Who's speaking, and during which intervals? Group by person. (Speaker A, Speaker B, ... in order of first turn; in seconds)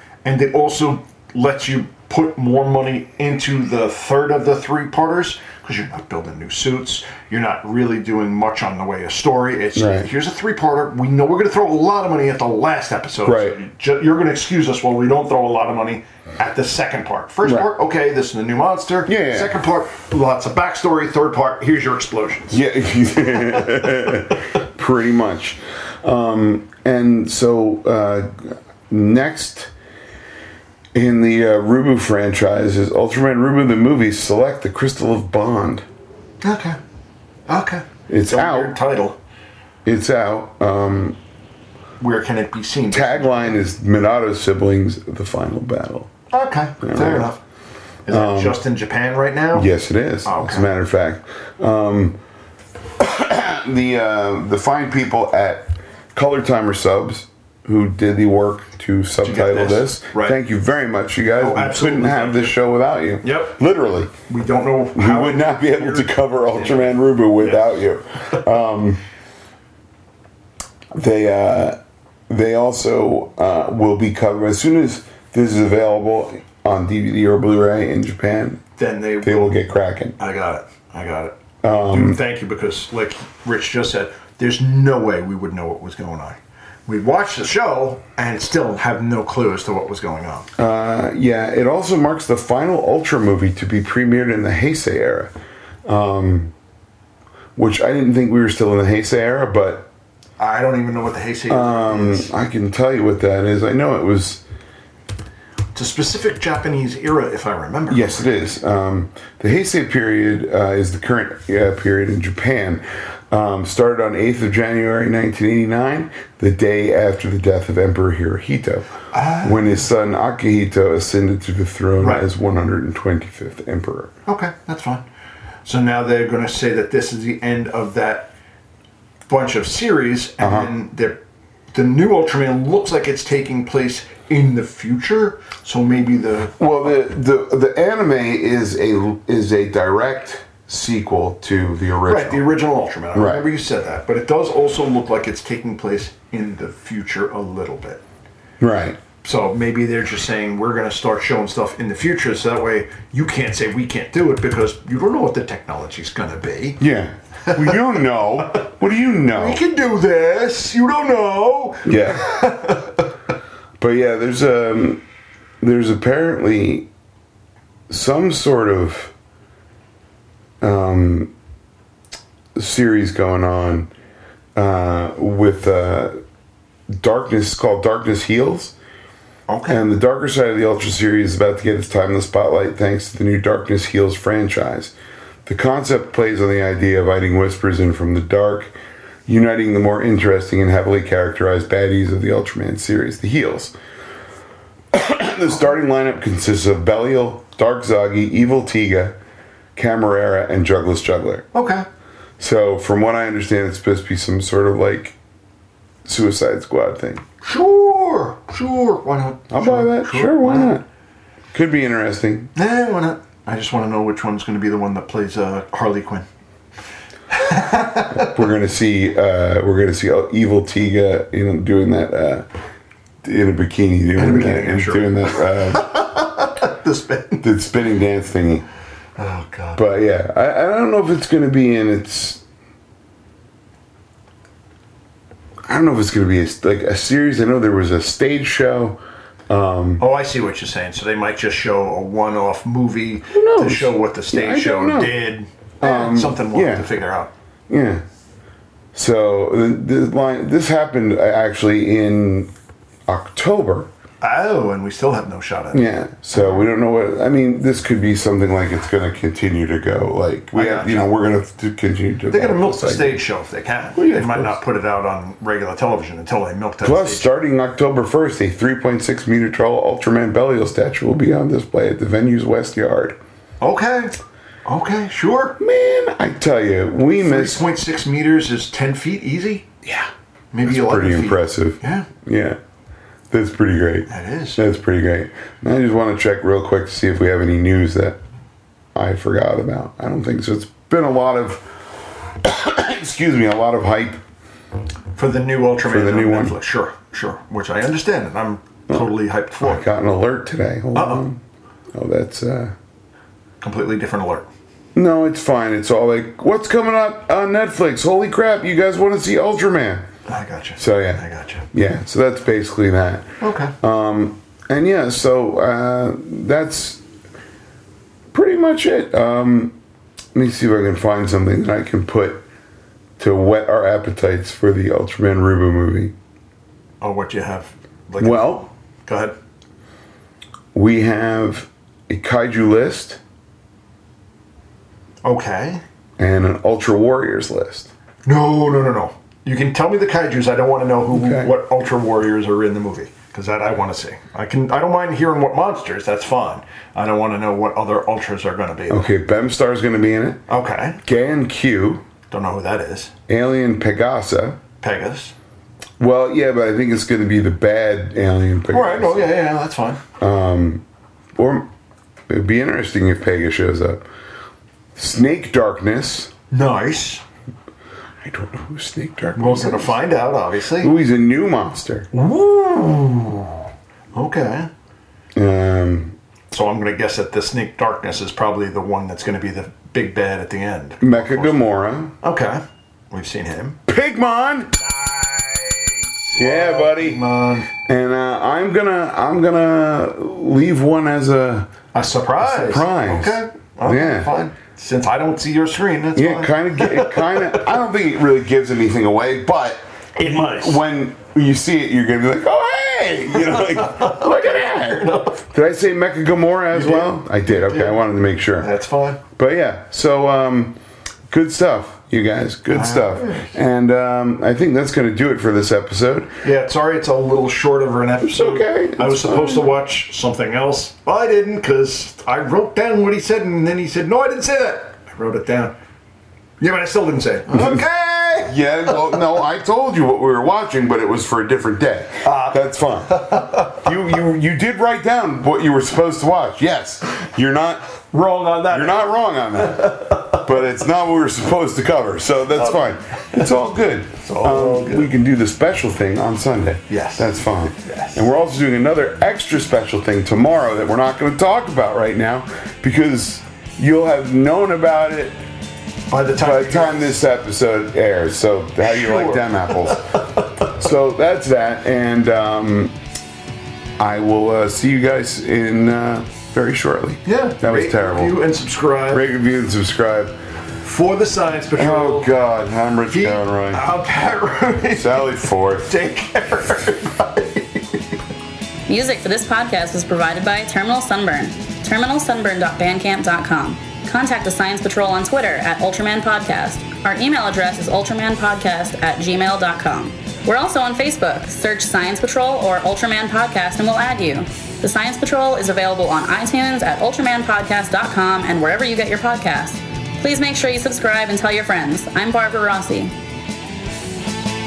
Speaker A: 0.2-22.6, 36.4-36.8, 37.5-39.2, 42.0-43.6, 46.3-47.4, 48.0-49.7, 50.2-50.7, 59.2-60.4, 61.4-62.5, 63.2-63.6, 64.3-67.8, 78.8-79.6, 80.2-90.5, 100.4-102.3, 105.7-108.3, 119.1-119.8, 122.0-122.2, 124.2-125.0, 125.7-128.3, 129.3-131.2, 131.7-136.6, 142.1-148.0, 149.2-156.8, 157.5-157.8, 159.3-163.0, 179.5-179.8, 201.5-201.8, 207.4-210.8, 212.5-216.2, 217.3-218.4, 224.2-227.4, 229.2-229.9, 240.0-247.3, 254.2-256.6, 260.5-261.1, 262.3-267.3, 273.6-275.6, 277.2-279.7, 280.5-282.1, 284.1-284.6, 295.1-299.9, 300.9-301.2, 303.6-304.5, 310.3-311.6, 313.4-313.7, 327.0-329.3, 335.2-335.8, 338.2-349.1, 350.5-351.0, 352.3-353.1, 354.8-355.3, 358.7-360.0, 366.5-367.2, 369.4-370.9, 372.1-373.6, 374.1-374.7, 376.5-381.7, 382.2-383.8, 384.8-387.7, 391.9-397.7, 400.1-400.8, 403.3-405.4, 406.7-408.0, 408.6-409.2, 412.7-413.5, 416.4-425.7, 426.6-429.0, 432.2-433.9, 438.1-440.5, 442.6-443.4, 444.2-445.1, 446.9-448.3, 456.1-457.2, 458.8-460.7, 467.2-469.3, 470.8-472.3, 473.1-475.2, 475.9-477.8
Speaker B: 9.7-10.1, 13.2-13.6, 19.1-19.5, 22.5-29.7, 30.9-35.9, 38.1-38.8, 39.8-41.2, 42.9-46.1, 46.8-47.3, 48.1-48.6, 49.5-52.2, 53.0-64.1, 64.9-69.0, 70.9-71.8, 72.3-78.6, 79.2-80.2, 81.6-82.2, 90.6-95.3, 95.8-96.5, 97.5-99.9, 101.5-104.4, 107.9-118.9, 119.4-124.1, 130.4-130.7, 136.6-142.5, 143.1-143.4, 148.6-149.0, 156.8-159.6, 161.8-162.3, 163.8-165.0, 165.6-166.9, 167.9-169.1, 170.6-171.3, 172.6-173.9, 174.6-176.2, 176.9-178.7, 179.7-184.9, 185.4-188.7, 189.3-193.7, 194.9-199.2, 199.8-201.4, 202.4-205.2, 206.1-207.2, 209.5-210.8, 211.5-212.5, 218.1-222.5, 223.2-225.9, 227.4-228.6, 229.7-232.4, 235.7-240.0, 243.3-245.2, 245.8-246.9, 247.7-248.0, 248.9-252.5, 253.1-253.9, 255.7-263.2, 263.9-264.6, 266.8-273.2, 275.6-277.6, 279.8-280.1, 280.6-282.6, 283.3-288.2, 288.9-291.6, 292.4-294.2, 295.8-296.6, 299.6-301.4, 301.9-302.7, 304.9-310.1, 310.8-313.3, 313.8-317.0, 318.3-319.8, 320.3-322.4, 323.2-326.1, 328.2-328.6, 330.7-333.2, 336.2-337.9, 341.1-341.5, 348.9-350.4, 351.0-352.0, 353.3-354.6, 356.0-359.4, 360.2-360.8, 361.3-361.7, 362.3-364.0, 364.9-366.3, 368.2-370.1, 370.8-372.1, 375.3-376.1, 381.0-382.1, 383.9-384.8, 386.4-391.7, 392.4-394.3, 396.1-408.7, 409.3-410.8, 411.3-416.4, 418.2-419.7, 427.5-427.8, 428.4-437.9, 438.6-455.4, 456.4-462.9, 464.0-468.4, 469.1-470.4, 471.8-473.8, 474.9-475.9
Speaker C: 478.9-503.1